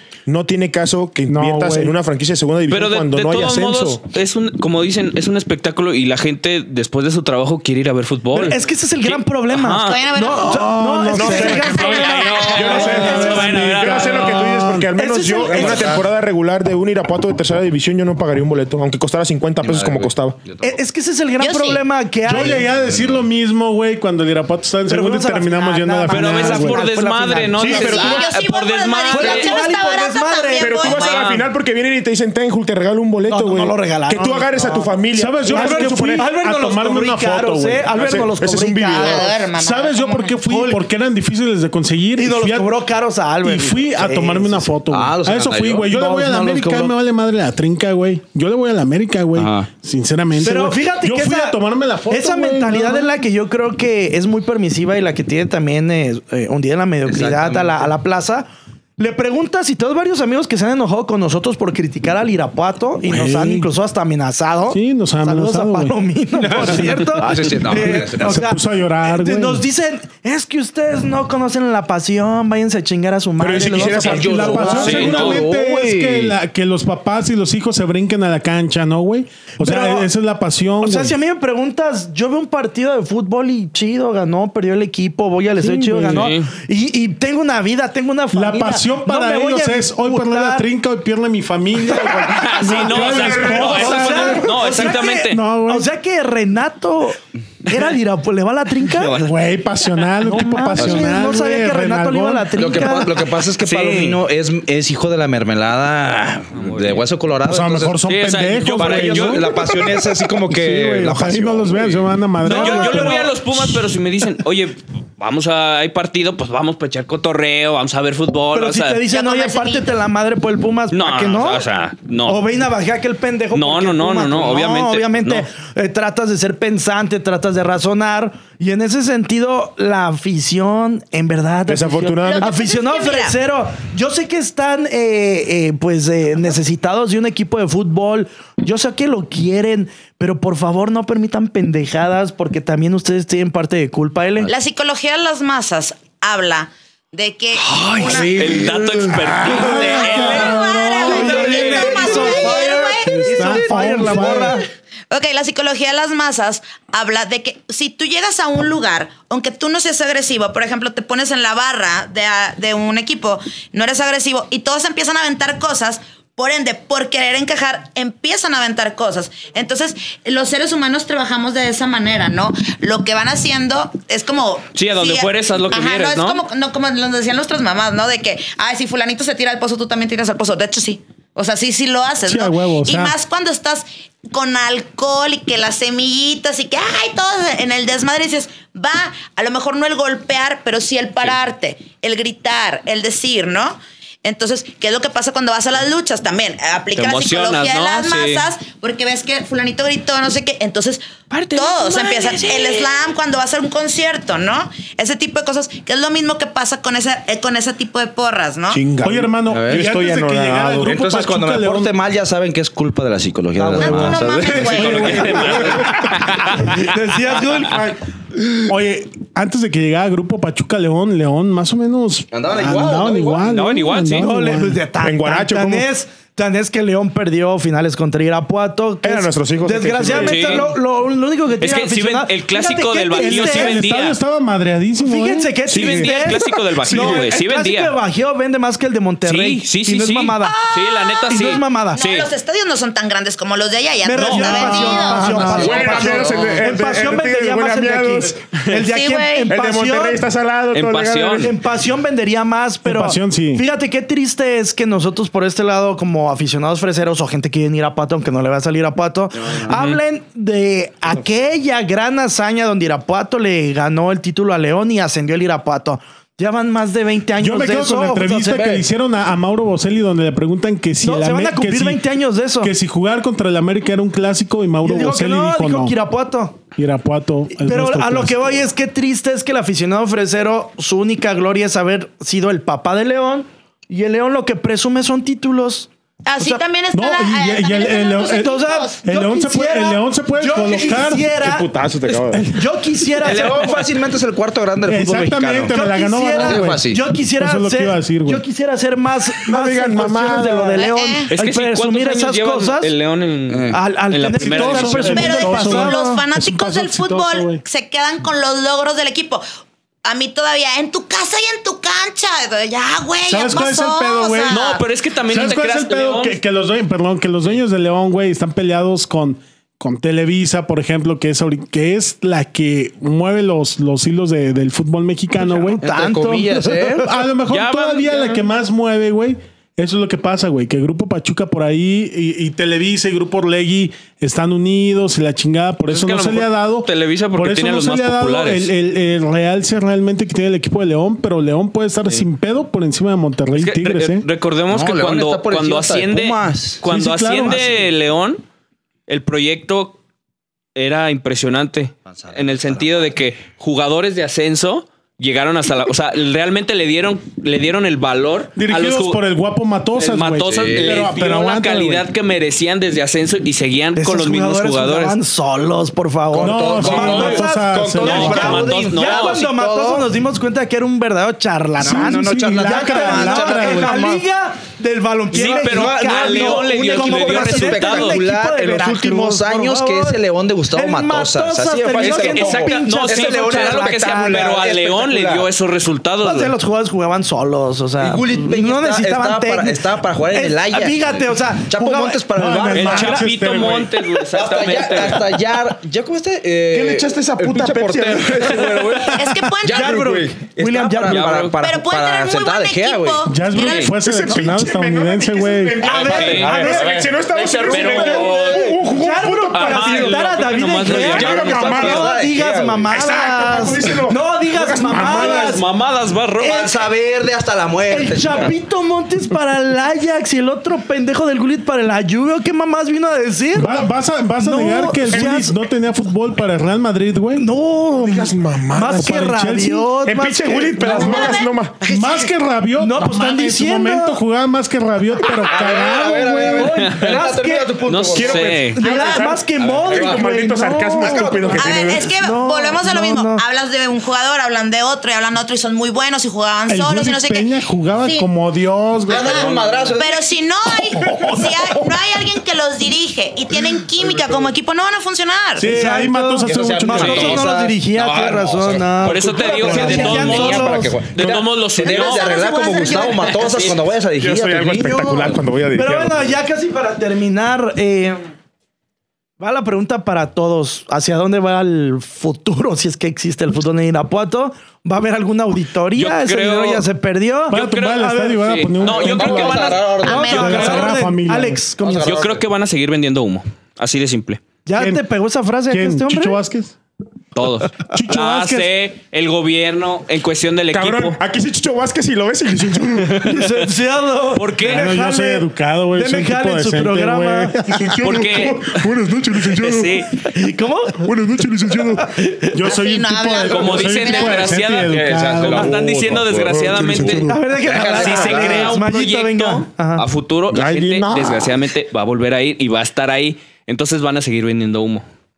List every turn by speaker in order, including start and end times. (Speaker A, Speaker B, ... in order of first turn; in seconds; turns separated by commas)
Speaker A: 0.2-4.0, Speaker B: 1.3-1.9, Speaker C: 2.7-10.0, Speaker D: 8.3-13.6, Speaker E: 9.8-12.8, Speaker B: 10.4-11.9, Speaker A: 11.1-11.9, Speaker C: 11.4-14.5, Speaker A: 12.5-20.4, Speaker B: 12.6-14.8, Speaker D: 14.9-16.0, Speaker F: 15.4-16.1, Speaker F: 19.6-20.8, Speaker D: 20.6-22.7, Speaker E: 21.4-21.8, Speaker B: 22.2-26.9, Speaker F: 22.3-23.2, Speaker D: 24.9-28.1, Speaker C: 26.1-29.6, Speaker A: 27.6-28.3, Speaker E: 27.6-31.3, Speaker D: 29.1-30.9, Speaker A: 30.6-36.3, Speaker C: 30.8-31.4, Speaker D: 33.3-34.9, Speaker B: 35.1-37.9, Speaker D: 35.5-39.3, Speaker A: 37.9-39.3, Speaker E: 38.9-40.4, Speaker B: 39.5-42.8, Speaker D: 40.4-40.8, Speaker D: 42.1-44.7, Speaker B: 43.4-53.1, Speaker F: 44.9-46.9, Speaker F: 49.3-49.7, Speaker D: 50.4-75.1, Speaker F: 57.0-57.9, Speaker B: 63.0-63.7, Speaker B: 64.7-66.0, Speaker F: 66.4-68.4, Speaker B: 67.7-69.6, Speaker A: 73.4-75.0, Speaker F: 73.8-76.3, Speaker B: 74.0-81.1, Speaker C: 74.8-75.4, Speaker D: 79.6-80.1, Speaker D: 80.8-90.7, Speaker B: 85.6-86.3, Speaker C: 86.1-86.5, Speaker B: 88.3-95.9, Speaker D: 91.9-99.2, Speaker C: 92.3-95.4, Speaker A: 92.9-94.3, Speaker C: 98.8-99.5, Speaker B: 99.2-102.8, Speaker D: 100.2-103.2, Speaker F: 100.8-101.1, Speaker F: 102.6-108.0, Speaker C: 103.6-104.2, Speaker C: 106.5-107.0, Speaker B: 107.4-109.7, Speaker C: 108.0-109.5, Speaker F: 108.8-112.1, Speaker B: 110.5-113.3, Speaker D: 112.4-113.4, Speaker C: 112.4-119.0, Speaker D: 118.5-121.6, Speaker E: 119.1-120.0, Speaker C: 120.9-122.4, Speaker D: 122.2-144.5, Speaker C: 123.5-125.5, Speaker A: 131.7-132.5, Speaker E: 132.2-133.4, Speaker E: 144.4-148.4, Speaker C: 147.5-152.4, Speaker A: 148.4-149.2, Speaker B: 149.4-152.4, Speaker E: 149.6-153.6, Speaker D: 151.0-154.6, Speaker B: 153.0-154.6, Speaker E: 155.1-208.8, Speaker C: 174.7-176.4, Speaker B: 182.2-183.1, Speaker C: 196.9-198.4, Speaker C: 201.3-202.9, Speaker A: 208.7-210.9, Speaker B: 209.0-211.9, Speaker F: 209.5-209.9, Speaker F: 210.8-215.7, Speaker D: 213.6-218.0, Speaker E: 213.8-215.4, Speaker B: 214.5-216.0, Speaker C: 214.7-216.9, Speaker B: 218.7-224.8, Speaker F: 222.3-223.5, Speaker C: 223.4-224.3, Speaker D: 224.1-233.8, Speaker A: 225.0-225.9, Speaker A: 229.0-230.5, Speaker C: 230.1-230.7, Speaker C: 231.6-234.2, Speaker B: 233.2-235.7, Speaker D: 235.0-240.6, Speaker C: 235.7-237.9, Speaker A: 235.7-237.2, Speaker C: 239.2-242.3, Speaker E: 240.4-241.3, Speaker D: 241.3-242.0, Speaker E: 241.9-245.6, Speaker D: 244.0-250.2, Speaker C: 244.2-244.7, Speaker B: 244.4-245.9, Speaker F: 245.2-246.5, Speaker A: 245.5-248.4, Speaker C: 246.0-246.4, Speaker E: 248.7-249.5, Speaker A: 249.5-251.6, Speaker C: 250.7-251.5, Speaker D: 251.4-268.7, Speaker B: 252.8-253.6, Speaker F: 259.4-259.7, Speaker C: 259.7-260.0, Speaker B: 267.4-272.1, Speaker F: 268.4-268.9, Speaker D: 271.0-272.7, Speaker B: 272.6-275.9, Speaker D: 274.8-276.6, Speaker B: 276.7-278.6, Speaker D: 277.5-286.6, Speaker E: 286.2-289.0, Speaker B: 286.9-291.3, Speaker D: 288.4-291.7, Speaker A: 291.4-292.4, Speaker D: 292.4-293.9, Speaker F: 293.2-295.7, Speaker B: 294.8-296.8, Speaker D: 295.7-302.9, Speaker F: 296.4-297.0, Speaker B: 297.4-298.4, Speaker A: 299.4-300.9, Speaker E: 300.8-301.3, Speaker C: 301.3-305.5, Speaker F: 303.5-303.8, Speaker D: 303.7-306.2, Speaker B: 304.4-307.6, Speaker E: 305.1-309.4, Speaker E: 310.0-314.8, Speaker B: 313.3-314.6, Speaker C: 314.5-316.4, Speaker B: 315.2-325.8, Speaker D: 325.4-327.1, Speaker F: 325.8-327.1, Speaker B: 327.0-344.2, Speaker C: 327.5-328.4, Speaker C: 335.9-338.7, Speaker C: 343.6-348.4, Speaker F: 344.7-346.8, Speaker B: 346.9-347.8, Speaker C: 349.1-350.0, Speaker C: 350.8-359.2, Speaker F: 352.1-353.1, Speaker B: 358.6-362.1, Speaker C: 359.9-365.2, Speaker F: 360.5-361.1, Speaker D: 363.9-380.2, Speaker F: 366.3-370.1, Speaker B: 366.4-368.6, Speaker C: 368.0-369.4, Speaker B: 371.8-374.0, Speaker F: 371.8-374.2, Speaker F: 375.3-385.5, Speaker C: 375.3-378.2, Speaker D: 380.7-384.4, Speaker C: 382.0-386.5, Speaker D: 386.2-393.2, Speaker F: 388.0-393.3, Speaker B: 392.3-393.9, Speaker C: 392.7-395.4, Speaker F: 394.2-403.9, Speaker A: 396.7-399.0, Speaker E: 399.1-399.9, Speaker D: 399.7-401.3, Speaker C: 401.1-401.6, Speaker E: 401.6-403.9, Speaker B: 403.2-405.9, Speaker A: 403.9-410.3, Speaker D: 404.2-404.5, Speaker D: 405.8-407.0, Speaker F: 405.9-408.7, Speaker C: 405.9-406.7, Speaker C: 407.7-408.8, Speaker D: 408.8-415.6, Speaker C: 409.5-412.1, Speaker F: 410.8-412.9, Speaker A: 411.1-412.0, Speaker A: 412.9-415.6, Speaker C: 415.0-416.7, Speaker F: 416.4-418.5, Speaker D: 416.4-416.8, Speaker D: 417.9-423.8, Speaker B: 423.5-427.4, Speaker D: 424.4-425.5, Speaker D: 427.4-431.3, Speaker A: 427.9-429.1, Speaker B: 428.9-429.9, Speaker A: 430.0-431.8, Speaker E: 430.8-432.3, Speaker B: 431.8-436.8, Speaker D: 432.8-434.2, Speaker F: 435.4-438.6, Speaker D: 436.5-437.9, Speaker C: 436.7-437.1, Speaker C: 437.9-438.8, Speaker A: 438.1-442.1, Speaker D: 438.7-443.4, Speaker E: 438.8-439.2, Speaker F: 439.6-440.3, Speaker F: 441.0-441.7, Speaker E: 441.6-448.3, Speaker B: 446.7-449.5, Speaker F: 449.1-450.2, Speaker E: 449.1-455.7, Speaker F: 454.0-454.5, Speaker B: 455.6-457.4, Speaker D: 455.6-461.0, Speaker F: 456.4-465.4, Speaker C: 456.9-457.4, Speaker C: 459.0-463.8, Speaker E: 461.8-463.7, Speaker A: 464.2-466.3, Speaker D: 465.7-468.3, Speaker D: 469.4-478.6, Speaker C: 475.9-476.8, Speaker B: 477.5-481.7, Speaker C: 477.5-480.9, Speaker F: 478.8-480.9, Speaker E: 480.0-480.8, Speaker D: 480.1-482.3, Speaker F: 481.8-482.4, Speaker C: 482.0-484.4, Speaker D: 484.6-486.4, Speaker B: 484.8-485.0, Speaker B: 485.7-486.7, Speaker C: 487.3-491.2, Speaker B: 487.9-488.7, Speaker A: 490.7-493.5, Speaker D: 493.2-497.8, Speaker C: 494.3-494.9, Speaker B: 494.6-498.0, Speaker A: 497.7-500.1, Speaker C: 498.0-500.2, Speaker D: 500.2-501.1, Speaker A: 501.0-502.1, Speaker D: 501.9-502.6, Speaker B: 502.5-506.0, Speaker E: 502.6-504.6, Speaker C: 503.4-507.3, Speaker F: 504.8-507.0, Speaker A: 505.5-507.4, Speaker D: 507.0-510.0, Speaker F: 507.6-508.8, Speaker C: 507.8-515.0, Speaker A: 510.5-511.6